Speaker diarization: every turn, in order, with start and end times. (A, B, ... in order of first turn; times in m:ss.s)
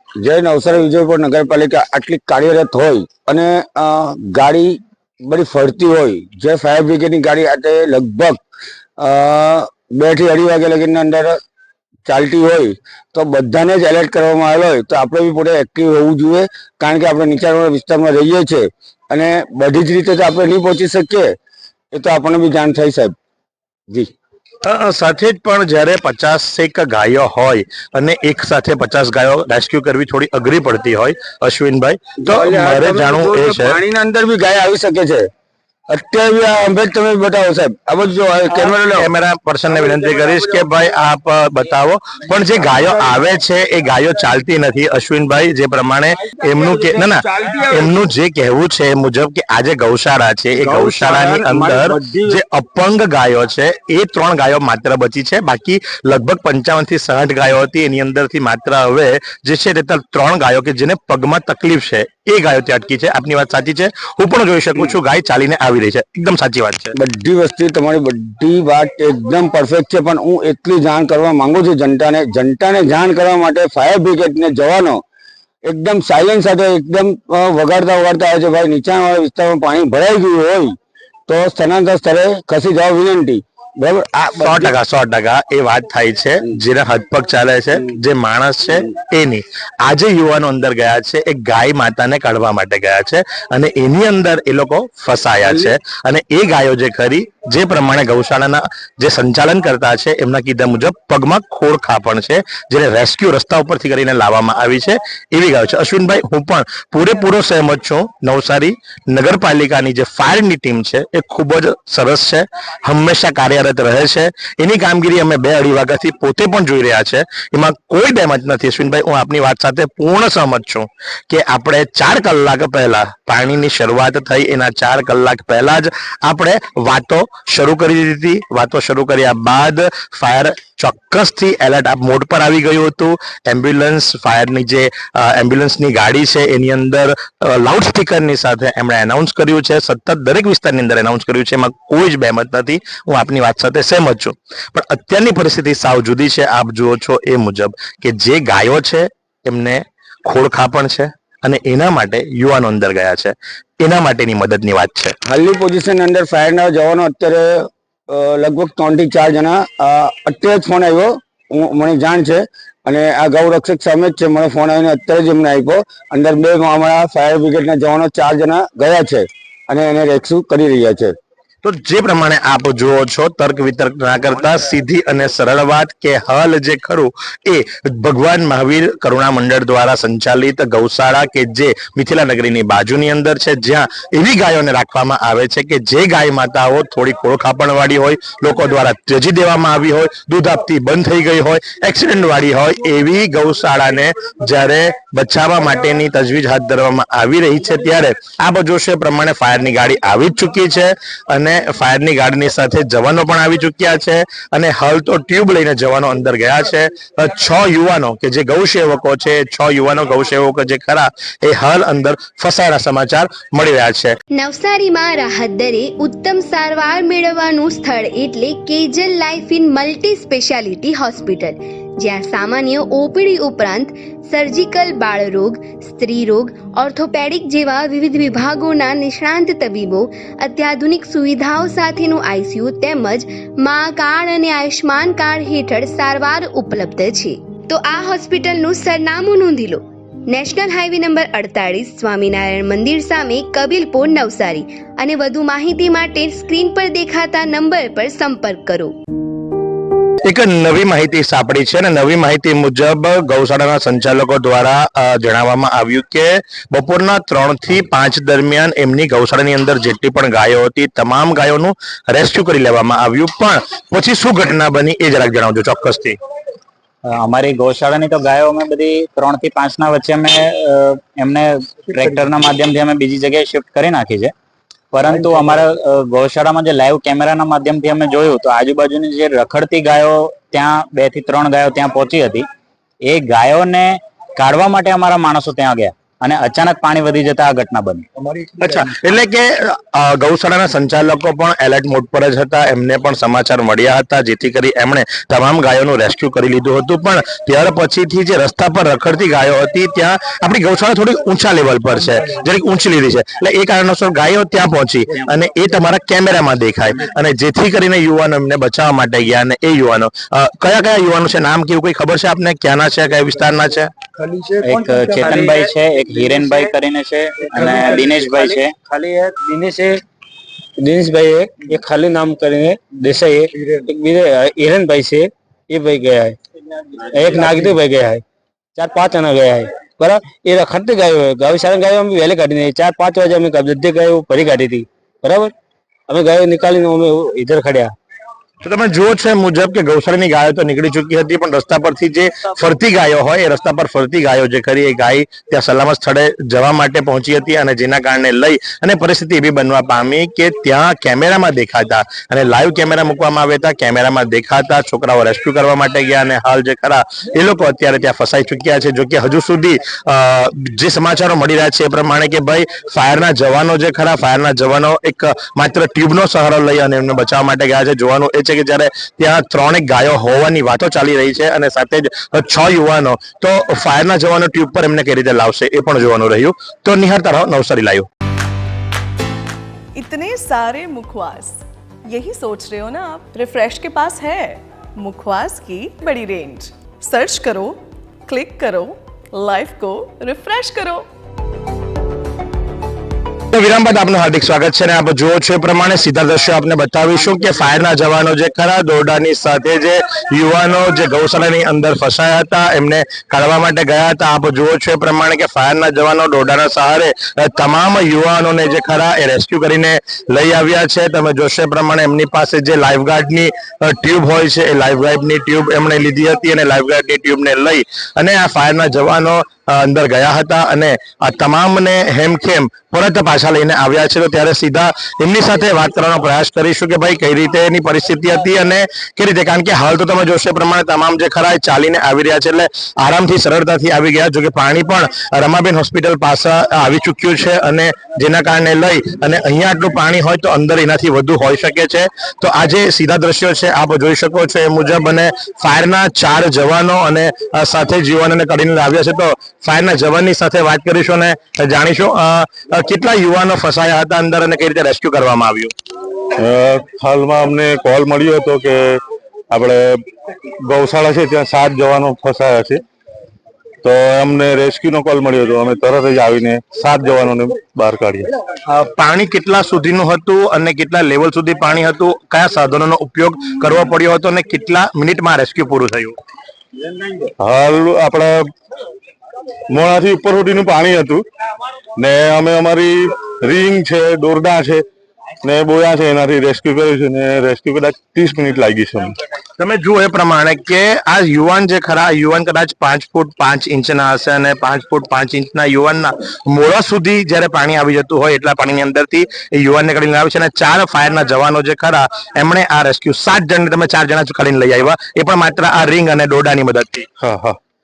0:00.2-0:08.4 A
0:09.0-0:11.4 A
0:12.1-0:21.3 A
0:21.9-0:23.1 A
0:24.6-0:33.8 B
0:32.2-0:35.3 A
0:35.9-0:39.1 A
0:38.5-1:06.9 B
0:46.8-0:47.8 A
0:50.6-0:52.2 A
1:07.0-1:15.0 A
1:15.6-1:20.8 A
1:21.3-1:24.7 A
1:24.4-2:35.1 B
2:35.3-2:51.1 A
2:51.6-3:34.2 B
3:34.3-4:08.9 C
4:10.2-4:26.2 B
4:27.0-4:34.3 D
4:34.9-4:42.4 D
4:43.0-4:48.0 D
4:48.6-5:13.9 B
5:14.3-5:16.7 E
5:14.6-5:18.7 D
5:17.4-5:20.0 E
5:20.8-5:26.4 E
5:27.0-5:28.2 E
5:28.8-5:35.5 E
5:36.1-5:37.9 E
5:38.6-6:18.1 B
6:19.9-6:31.0 F
6:33.5-7:35.7 B
7:36.4-7:40.0 G
7:40.6-7:42.8 G
7:43.8-7:48.3 G
7:48.7-7:56.1 B
7:57.4-7:58.5 G
7:59.7-8:01.2 G
8:02.0-8:04.8 G
8:05.4-8:09.1 G
8:09.6-8:27.1 B
8:27.2-8:27.6 G